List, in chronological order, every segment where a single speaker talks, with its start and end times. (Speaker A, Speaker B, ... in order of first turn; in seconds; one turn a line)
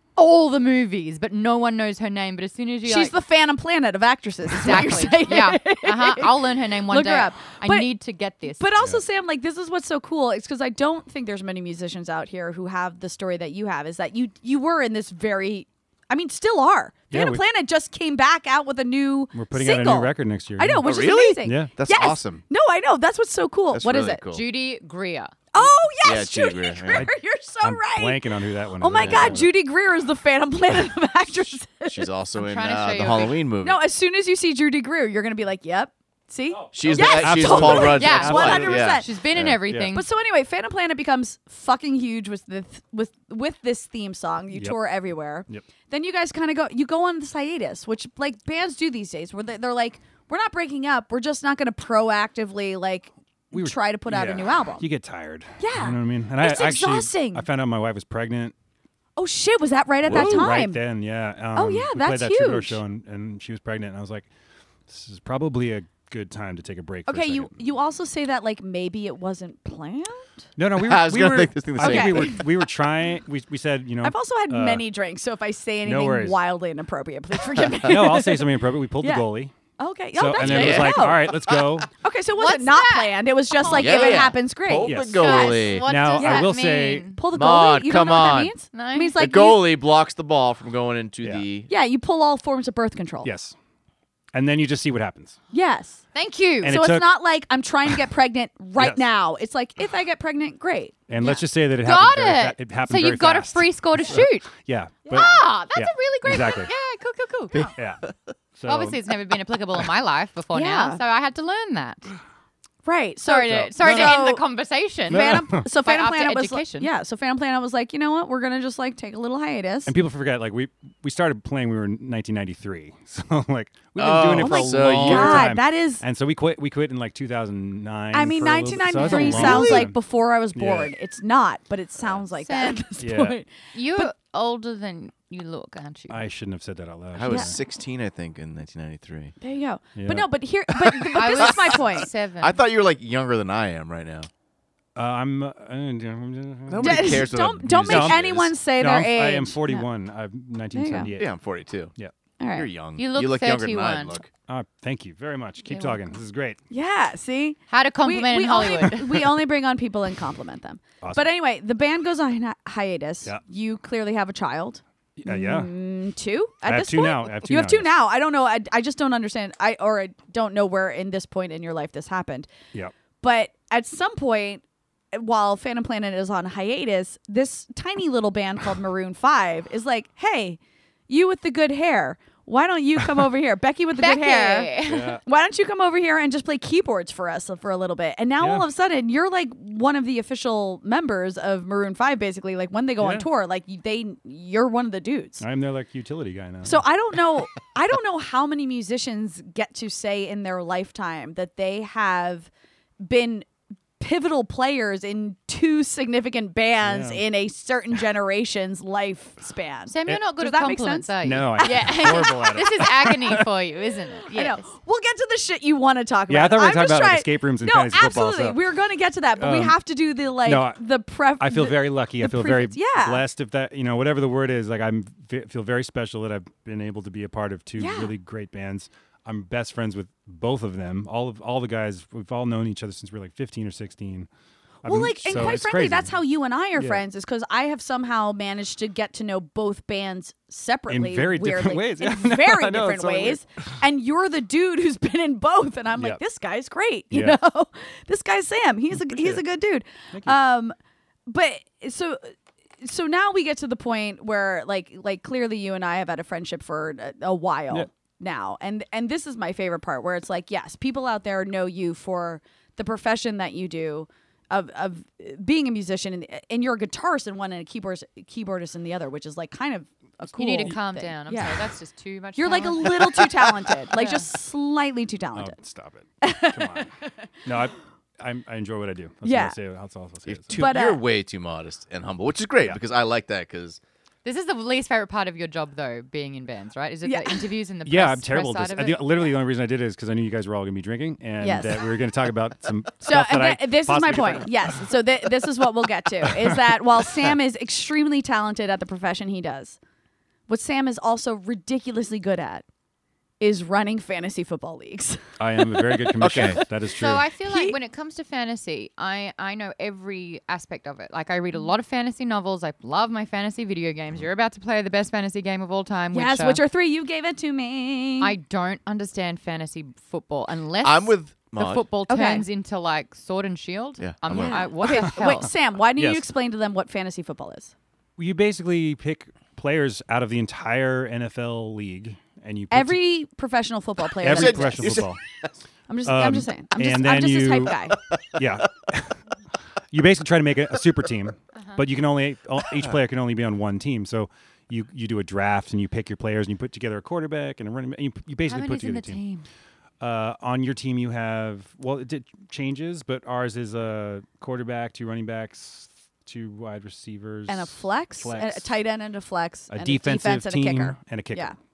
Speaker A: 0.2-3.1
Speaker B: 2.9-7.9
Speaker A: 4.5-8.7
Speaker B: 8.6-24.2
Speaker C: 17.1-17.4
Speaker C: 19.3-20.9
Speaker D: 20.8-22.4
Speaker C: 21.4-21.7
Speaker D: 23.7-24.4
Speaker A: 24.3-25.4
Speaker B: 25.5-28.2
Speaker D: 26.0-27.1
Speaker C: 26.9-29.5
Speaker B: 28.8-32.1
Speaker D: 29.0-29.4
Speaker D: 31.9-33.8
Speaker A: 32.4-33.4
Speaker B: 33.6-39.1
Speaker C: 36.5-39.0
Speaker D: 36.7-39.6
Speaker A: 37.9-40.0
Speaker C: 39.7-40.0
Speaker B: 39.9-54.9
Speaker C: 53.5-58.5
Speaker B: 55.6-57.4
Speaker B: 59.2-60.8
Speaker C: 60.0-64.3
Speaker D: 60.1-60.5
Speaker B: 61.5-62.8
Speaker C: 64.9-67.5
Speaker B: 67.1-70.3
Speaker C: 70.6-74.8
Speaker D: 70.8-72.6
Speaker B: 71.8-72.3
Speaker B: 74.0-79.3
Speaker C: 75.8-76.4
Speaker C: 77.9-79.5
Speaker B: 79.8-81.3
Speaker C: 80.2-81.9
Speaker D: 80.4-81.7
Speaker B: 82.0-86.5
Speaker A: 82.3-84.3
Speaker D: 83.7-85.9
Speaker C: 84.8-87.1
Speaker A: 85.2-87.2
Speaker B: 87.1-89.7
Speaker D: 87.3-88.5
Speaker A: 88.7-89.2
Speaker D: 89.2-91.7
Speaker B: 91.7-93.3
Speaker C: 93.2-93.5
Speaker C: 94.3-95.4
Speaker B: 95.5-96.0
Speaker A: 96.1-96.8
Speaker C: 96.6-97.2
Speaker B: 96.6-101.3
Speaker C: 98.8-99.0
Speaker C: 101.1-106.7
Speaker A: 101.2-104.5
Speaker B: 105.1-105.4
Speaker A: 105.1-107.7
Speaker D: 107.5-108.3
Speaker C: 107.7-108.0
Speaker C: 108.6-109.0
Speaker A: 108.7-112.1
Speaker B: 110.5-111.0
Speaker B: 112.8-114.4
Speaker A: 113.3-116.9
Speaker C: 113.5-114.2
Speaker B: 115.1-119.9
Speaker C: 115.1-115.7
Speaker C: 119.9-130.0
Speaker D: 124.0-125.6
Speaker B: 124.4-126.0
Speaker B: 128.1-134.1
Speaker A: 129.0-129.5
Speaker D: 129.3-129.8
Speaker C: 130.6-130.9
Speaker A: 132.4-132.8
Speaker C: 133.0-133.4
Speaker A: 133.7-136.2
Speaker C: 136.1-137.6
Speaker D: 137.2-139.3
Speaker B: 137.3-137.5
Speaker B: 139.4-142.1
Speaker C: 140.0-140.3
Speaker D: 140.8-141.8
Speaker A: 141.1-142.6
Speaker D: 142.4-144.3
Speaker C: 145.0-147.3
Speaker D: 146.7-148.5
Speaker B: 146.8-149.8
Speaker C: 147.9-151.3
Speaker B: 150.7-151.1
Speaker D: 151.2-151.9
Speaker B: 152.4-152.7
Speaker D: 152.5-154.3
Speaker A: 153.0-154.2
Speaker C: 154.5-156.6
Speaker A: 155.7-156.0
Speaker B: 156.7-172.5
Speaker A: 157.7-159.3
Speaker C: 161.0-161.3
Speaker C: 165.2-165.7
Speaker C: 166.7-167.9
Speaker B: 173.2-195.4
Speaker A: 184.0-185.2
Speaker C: 184.9-185.2
Speaker C: 188.4-188.7
Speaker C: 193.0-193.3
Speaker C: 195.4-196.8
Speaker B: 196.6-202.5
Speaker B: 203.0-203.5
Speaker B: 204.0-213.4
Speaker C: 206.8-207.2
Speaker A: 209.9-214.6
Speaker C: 211.2-213.5
Speaker B: 214.3-223.2
Speaker C: 216.3-218.6
Speaker C: 219.4-219.8
Speaker C: 220.4-220.8
Speaker C: 221.4-234.3
Speaker B: 227.8-228.1
Speaker C: 234.8-236.2
Speaker B: 234.9-250.8
Speaker C: 236.8-237.0
Speaker C: 240.9-243.4
Speaker C: 247.1-247.4
Speaker C: 248.9-249.4
Speaker C: 250.1-250.4
Speaker B: 251.3-271.7
Speaker A: 270.3-273.2
Speaker B: 272.4-275.6
Speaker A: 273.9-274.3
Speaker C: 275.4-276.9
Speaker B: 276.2-277.1
Speaker C: 277.4-280.6
Speaker B: 279.2-279.6
Speaker D: 280.3-283.8
Speaker B: 280.6-281.0
Speaker A: 284.2-289.1
Speaker B: 287.1-287.4
Speaker C: 287.9-294.8
Speaker B: 291.4-291.8
Speaker B: 293.0-299.8
Speaker C: 296.2-296.8
Speaker B: 300.5-302.6
Speaker B: 303.4-306.7
Speaker C: 305.4-307.3
Speaker D: 306.2-306.6
Speaker A: 306.9-316.6
Speaker B: 307.4-307.8
Speaker B: 316.1-318.3
Speaker A: 318.2-325.5
Speaker D: 320.8-321.9
Speaker B: 322.1-322.4
Speaker D: 324.0-324.7
Speaker B: 324.4-327.7
Speaker C: 326.0-326.2
Speaker C: 328.2-333.0
Speaker B: 332.7-335.0
Speaker C: 334.2-335.2
Speaker D: 334.2-335.2
Speaker B: 335.9-338.0
Speaker C: 336.0-337.8
Speaker D: 338.1-338.4
Speaker C: 338.3-339.2
Speaker C: 339.9-349.2
Speaker A: 341.6-341.8
Speaker A: 348.5-349.5
Speaker C: 350.0-358.7
Speaker B: 357.5-361.6
Speaker C: 359.7-361.5